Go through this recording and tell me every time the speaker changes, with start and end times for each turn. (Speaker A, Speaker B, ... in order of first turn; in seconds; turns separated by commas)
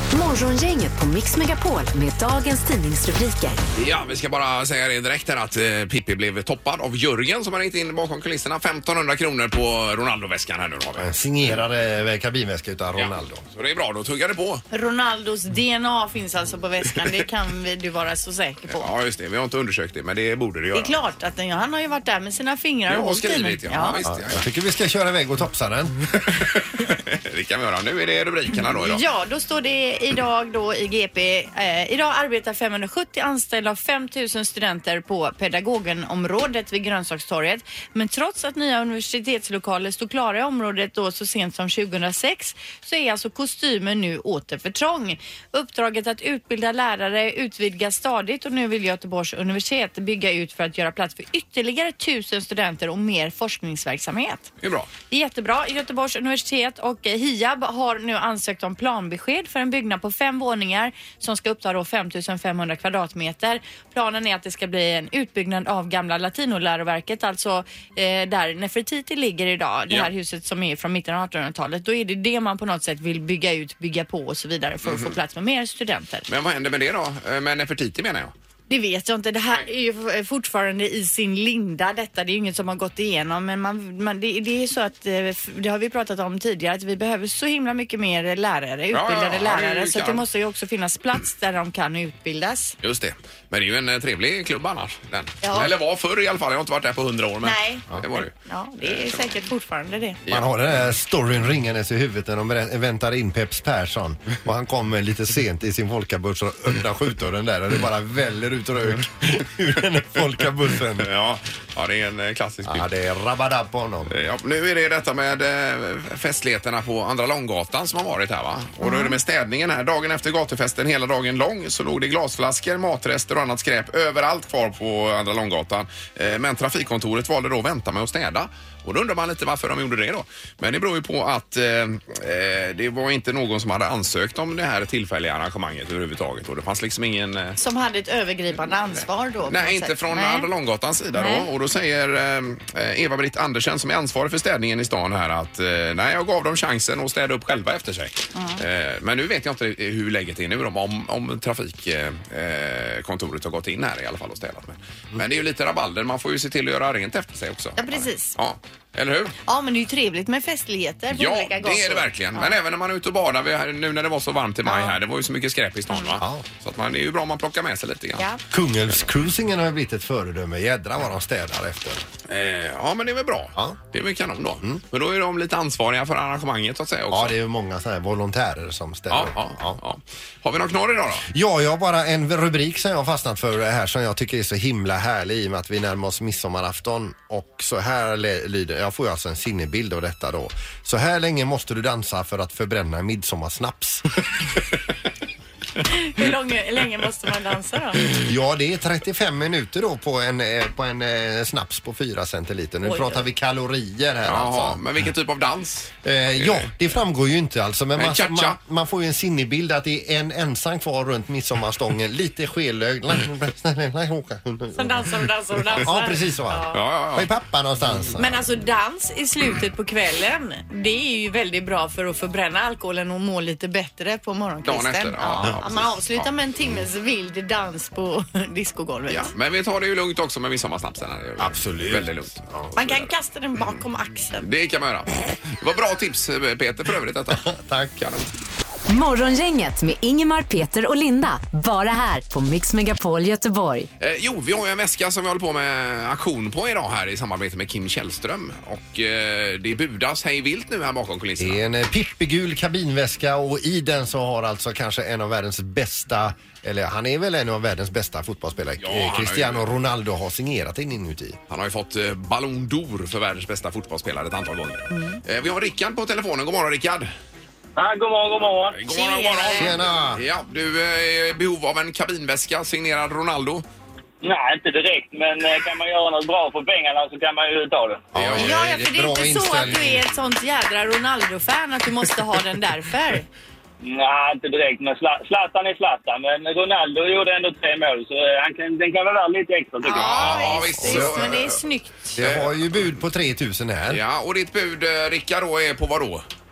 Speaker A: 0.1-3.6, Speaker B: 3.8-11.1, Speaker C: 11.0-13.4, Speaker B: 12.9-14.6, Speaker D: 14.7-18.9, Speaker B: 18.7-21.0, Speaker D: 20.7-24.0, Speaker B: 22.9-24.4, Speaker C: 24.1-26.1, Speaker B: 26.3-29.0, Speaker D: 28.7-54.5, Speaker B: 54.6-54.9, Speaker D: 55.1-76.3, Speaker B: 74.8-75.2, Speaker B: 76.3-78.3, Speaker D: 78.7-92.8, Speaker B: 88.9-90.2, Speaker B: 92.8-98.3, Speaker D: 95.4-95.7, Speaker D: 97.4-97.9, Speaker D: 98.4-100.2, Speaker C: 100.3-111.1, Speaker B: 111.0-112.9, Speaker C: 112.7-114.1, Speaker B: 114.1-137.6, Speaker D: 118.8-119.2, Speaker D: 137.6-140.5, Speaker B: 139.5-159.4, Speaker D: 141.2-141.5, Speaker D: 148.3-148.6, Speaker D: 157.8-158.3, Speaker D: 159.5-162.6, Speaker B: 161.1-168.3, Speaker D: 164.7-164.9, Speaker C: 166.2-166.5, Speaker C: 168.5-172.1, Speaker B: 172.3-177.3, Speaker C: 177.1-179.8, Speaker B: 179.1-181.3, Speaker C: 181.3-194.1, Speaker D: 195.8-198.1, Speaker C: 198.2-204.8, Speaker D: 202.8-203.2, Speaker B: 204.3-206.7, Speaker C: 206.0-218.4, Speaker B: 208.0-208.6, Speaker D: 214.8-216.8, Speaker B: 216.7-217.3, Speaker D: 218.2-229.3, Speaker B: 224.7-226.3, Speaker B: 229.1-233.8, Speaker C: 231.4-232.7, Speaker D: 232.8-234.5, Speaker B: 234.4-238.3, Speaker C: 237.3-238.0, Speaker A: 238.9-243.9, Speaker B: 244.0-251.6, Speaker C: 251.4-261.4, Speaker B: 258.8-259.7, Speaker B: 261.5-267.1, Speaker D: 264.9-265.2, Speaker E: 267.8-268.8, Speaker B: 268.7-273.7, Speaker D: 268.9-269.7, Speaker C: 269.6-270.2, Speaker E: 274.2-278.1, Speaker C: 278.1-280.0, Speaker B: 278.1-278.6, Speaker D: 278.3-283.3, Speaker E: 283.8-290.5, Speaker D: 289.8-292.2, Speaker B: 289.9-291.6, Speaker C: 290.8-291.4, Speaker C: 292.2-294.0, Speaker B: 292.2-292.9, Speaker B: 293.9-296.2